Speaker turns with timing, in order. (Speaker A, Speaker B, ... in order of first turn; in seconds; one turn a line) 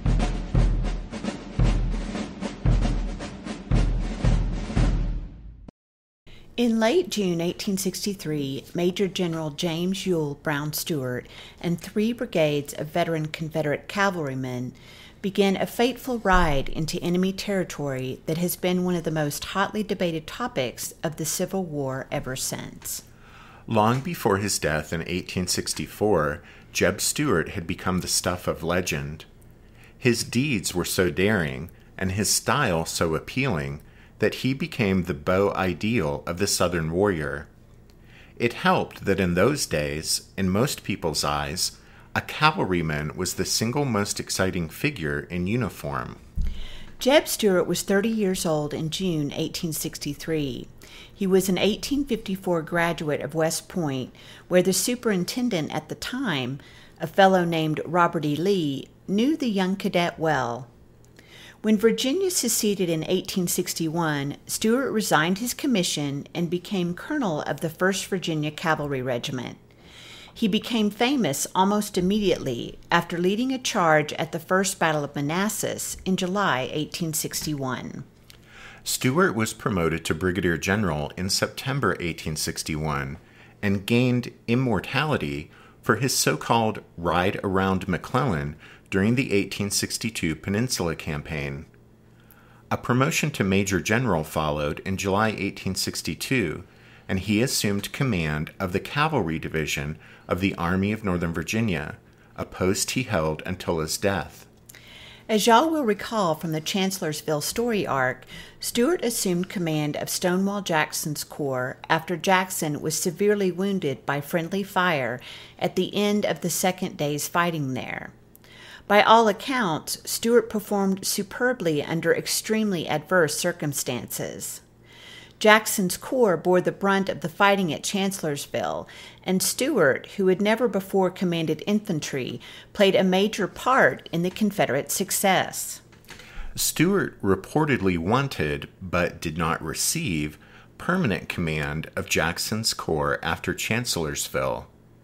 Speaker A: 6.6-23.0
Speaker B: 23.7-29.3
Speaker B: 30.0-37.5
Speaker B: 38.4-46.2
Speaker A: 47.0-60.7
Speaker A: 61.6-69.6
Speaker A: 70.4-78.0
Speaker B: 78.8-91.7
Speaker B: 92.7-104.5
Speaker A: 105.3-118.1
Speaker A: 118.9-124.6
Speaker A: 125.4-135.8
Speaker B: 136.6-144.7